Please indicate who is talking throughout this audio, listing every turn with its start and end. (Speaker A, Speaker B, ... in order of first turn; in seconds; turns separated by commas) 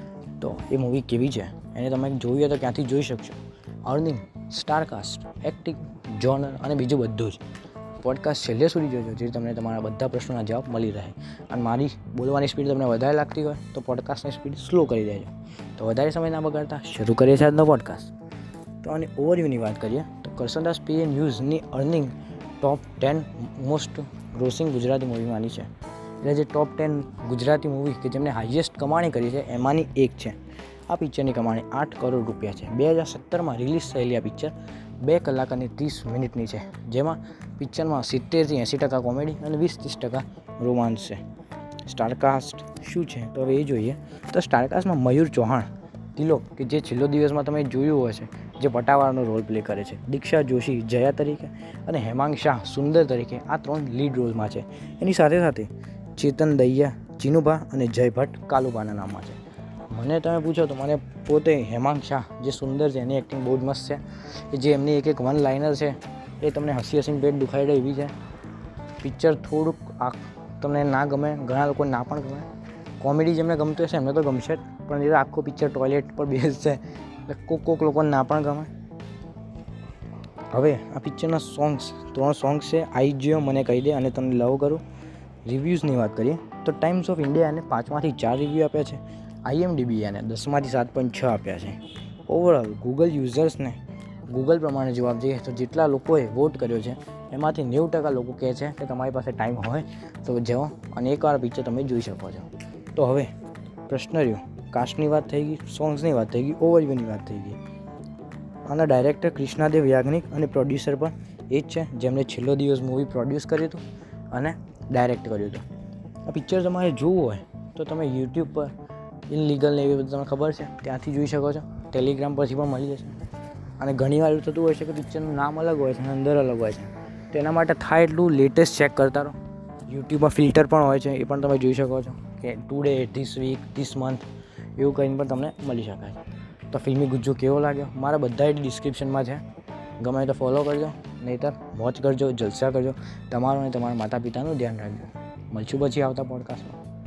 Speaker A: 0.4-7.4, Speaker A: 8.0-18.1, Speaker A: 18.8-25.7, Speaker A: 26.2-41.2, Speaker A: 41.9-59.4, Speaker A: 59.9-68.1, Speaker A: 69.0-72.5, Speaker A: 73.0-78.7, Speaker A: 80.5-84.8, Speaker A: 85.4-103.3, Speaker A: 103.9-107.6, Speaker A: 108.6-115.6, Speaker A: 116.2-118.7, Speaker A: 119.3-123.2, Speaker A: 123.8-134.2, Speaker A: 134.8-139.4, Speaker A: 140.0-146.8